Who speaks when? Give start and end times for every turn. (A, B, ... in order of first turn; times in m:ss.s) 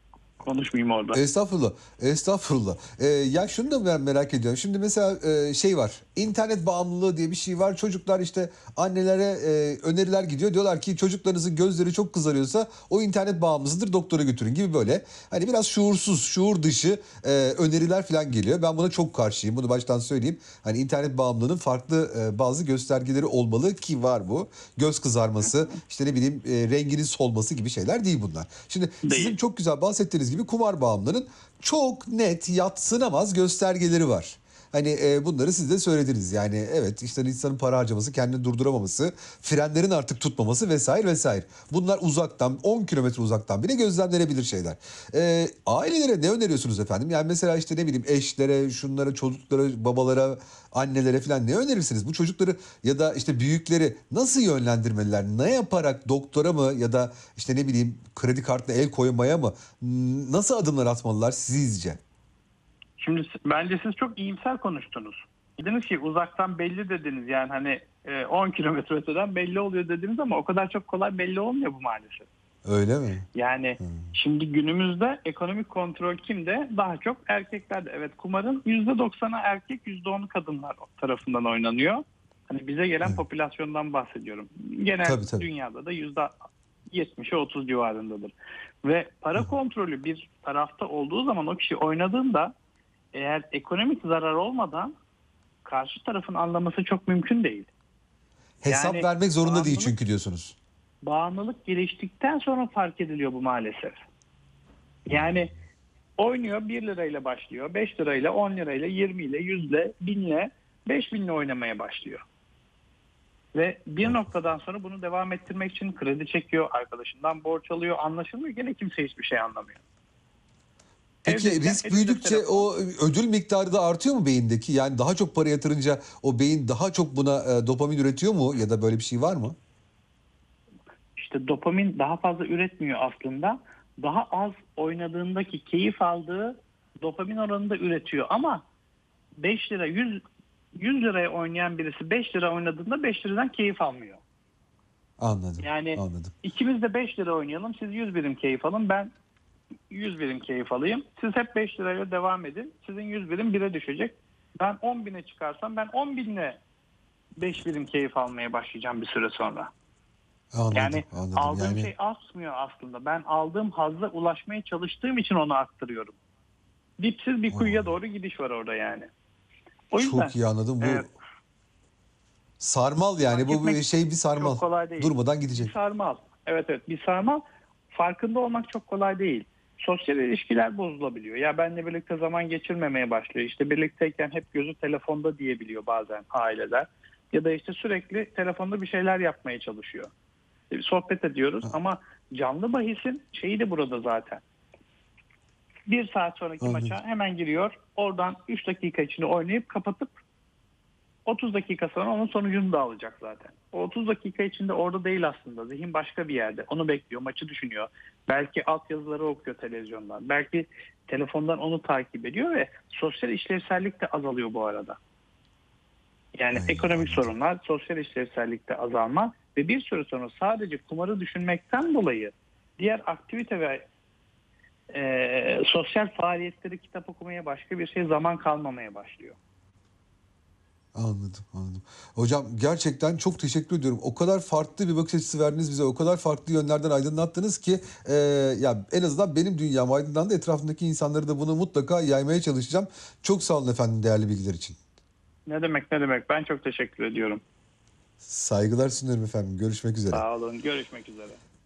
0:00.4-0:01.2 A
0:01.1-1:02.0 B
0:29.0-0:29.4 A
1:03.0-1:12.3 A
1:12.7-1:13.3 B
1:13.3-1:26.3 A
1:13.8-1:14.1 B
1:25.0-1:25.5 B
1:26.9-1:32.5 A
1:33.1-1:34.9 A
1:35.6-1:37.7 A
1:38.6-1:40.6 B
1:38.7-1:39.9 A
1:41.0-1:44.0 A
1:45.1-1:45.5 A
1:45.1-1:45.4 B
1:46.2-1:52.2 A
1:53.5-1:59.8 A
2:01.2-2:02.7 A
2:01.3-2:09.6 B
2:11.2-2:18.6 A
2:19.4-2:20.2 A
2:20.8-2:24.2 A
2:25.2-2:26.3 B
2:25.6-2:29.1 A
2:29.9-2:36.6 A
2:37.4-2:39.7 A
2:40.5-2:41.9 B
2:40.7-2:46.2 A
2:47.0-2:49.1 A
2:47.5-2:47.9 B
2:49.9-2:51.1 A
2:50.0-2:51.1 B
2:52.6-2:55.7 B
2:53.3-3:10.1 A
3:10.7-3:14.4 A
3:15.9-3:20.2 A
3:16.6-3:16.9 B
3:21.3-3:35.0 A
3:36.4-3:43.8 A
3:36.5-3:37.3 B
3:44.9-3:49.4 A
3:51.0-4:04.8 B
4:05.5-4:07.4 A
4:08.2-4:10.2 B
4:10.1-4:11.4 A